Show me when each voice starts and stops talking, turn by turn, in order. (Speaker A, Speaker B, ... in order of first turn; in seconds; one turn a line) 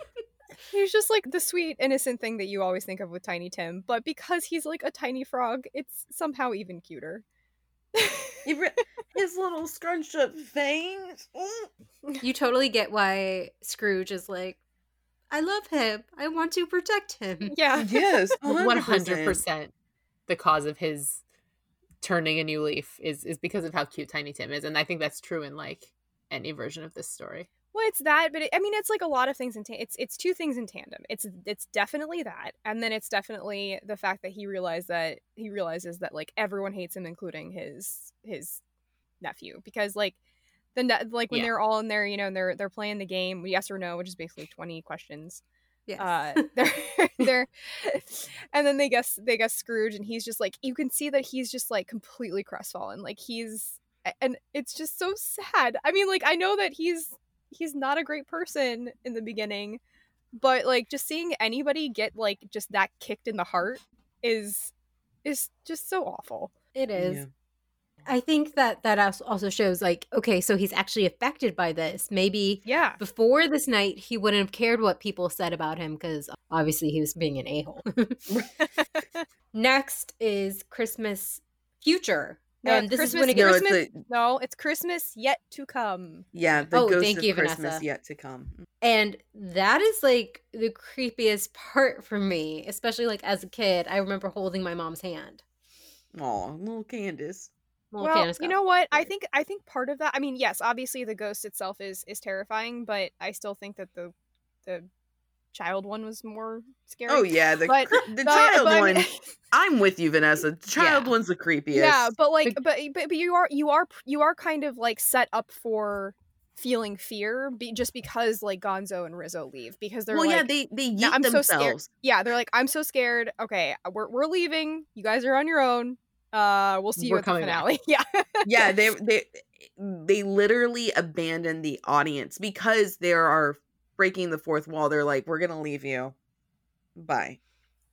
Speaker A: 0.7-7.2
Speaker A: 7.9-8.4
Speaker B: 8.4-11.7
Speaker C: 12.2-14.6
Speaker C: 15.3-17.6
Speaker A: 17.4-18.3
Speaker B: 17.8-19.4
Speaker D: 18.4-19.7
Speaker D: 20.3-21.2
Speaker D: 22.0-27.5
Speaker A: 27.7-38.6
Speaker A: 39.2-40.2
Speaker A: 40.8-45.4
Speaker C: 45.9-46.5
Speaker A: 46.0-59.8
Speaker A: 60.4-64.7
Speaker A: 65.2-66.5
Speaker C: 66.8-67.2
Speaker B: 67.0-67.3
Speaker C: 68.1-78.3
Speaker A: 72.7-73.0
Speaker A: 78.6-79.2
Speaker C: 79.5-83.7
Speaker A: 82.6-86.3
Speaker B: 83.3-84.0
Speaker B: 86.3-88.6
Speaker C: 86.7-87.8
Speaker C: 88.8-95.4
Speaker B: 96.1-97.5
Speaker C: 97.9-99.1
Speaker A: 98.0-104.1
Speaker A: 105.5-109.3
Speaker B: 107.1-112.1
Speaker D: 110.8-111.1
Speaker A: 111.7-128.8
Speaker B: 120.1-121.9
Speaker D: 127.0-127.7
Speaker B: 128.4-136.1
Speaker B: 136.9-137.4